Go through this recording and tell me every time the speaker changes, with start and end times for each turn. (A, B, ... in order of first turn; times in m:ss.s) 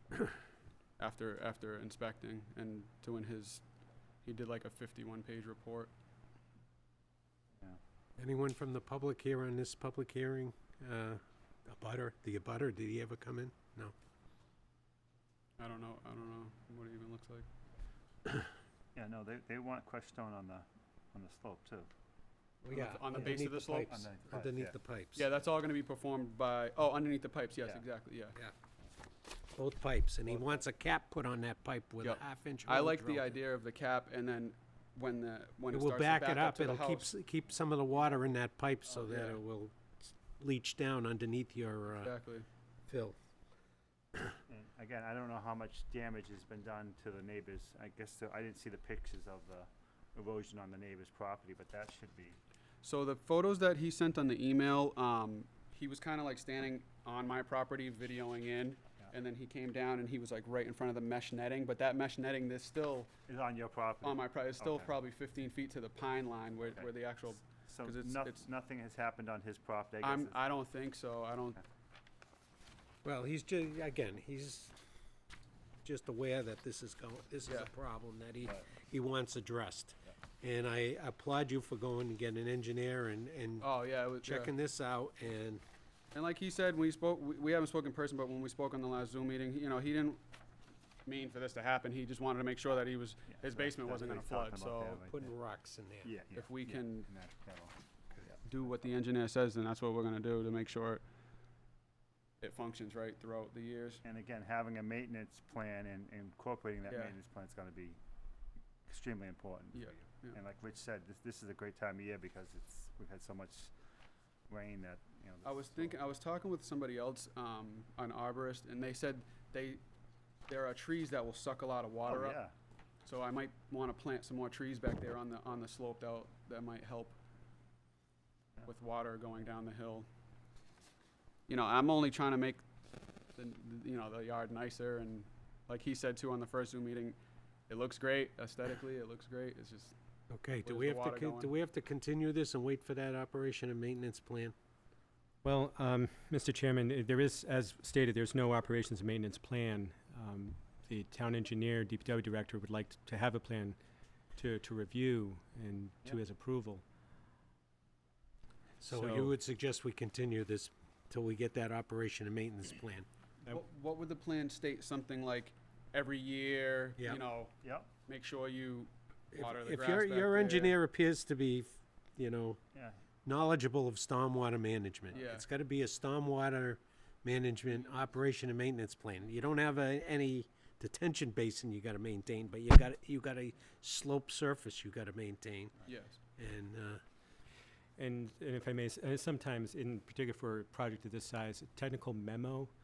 0:01.0-0:03.6 A
0:04.2-0:05.9 A
0:08.2-0:13.9 B
0:15.6-0:17.5 A
0:18.9-0:21.9 C
0:22.6-0:25.3 B
0:22.7-0:24.0 A
0:23.1-0:24.8 C
0:25.2-0:28.4 A
0:29.5-0:33.4 B
0:30.3-0:30.6 C
0:32.0-0:37.1 A
0:35.7-0:42.2 B
0:38.9-0:39.4 A
0:42.0-0:42.5 A
0:42.9-0:43.2 B
0:44.5-0:52.4 C
0:52.8-1:03.1 A
1:03.3-1:05.0 C
1:04.0-1:08.5 A
1:06.7-1:06.9 C
1:07.6-1:10.4 C
1:10.0-1:11.6 A
1:13.0-1:14.8 B
1:15.8-1:25.6 B
1:17.4-1:17.7 A
1:23.6-1:24.5 A
1:26.1-1:30.2 A
1:31.1-1:35.0 A
1:33.3-1:35.3 C
1:35.1-1:36.1 B
1:36.0-1:37.8 C
1:36.3-1:37.1 A
1:38.4-1:41.0 A
1:42.4-1:44.0 A
1:44.0-1:48.0 C
1:46.8-1:47.2 A
1:48.9-1:53.7 C
1:49.7-1:50.4 A
1:54.5-1:56.0 C
1:55.4-1:59.8 A
2:00.5-2:02.4 A
2:02.0-2:02.5 C
2:03.0-2:07.2 A
2:08.6-2:10.1 A
2:11.5-2:12.6 A
2:13.4-2:17.2 A
2:17.7-2:20.0 A
2:20.3-2:24.5 B
2:20.6-2:21.5 A
2:25.4-2:33.8 D
2:34.4-2:36.8 D
2:38.8-2:43.1 B
2:38.9-2:39.3 D
2:43.4-2:47.5 A
2:47.6-2:47.9 C
2:48.1-2:50.8 A
2:49.3-2:52.6 B
2:52.7-2:53.0 C
2:53.2-3:05.8 B
2:55.1-2:55.5 A
3:05.9-3:06.2 A
3:06.4-3:07.0 B
3:08.0-3:12.7 D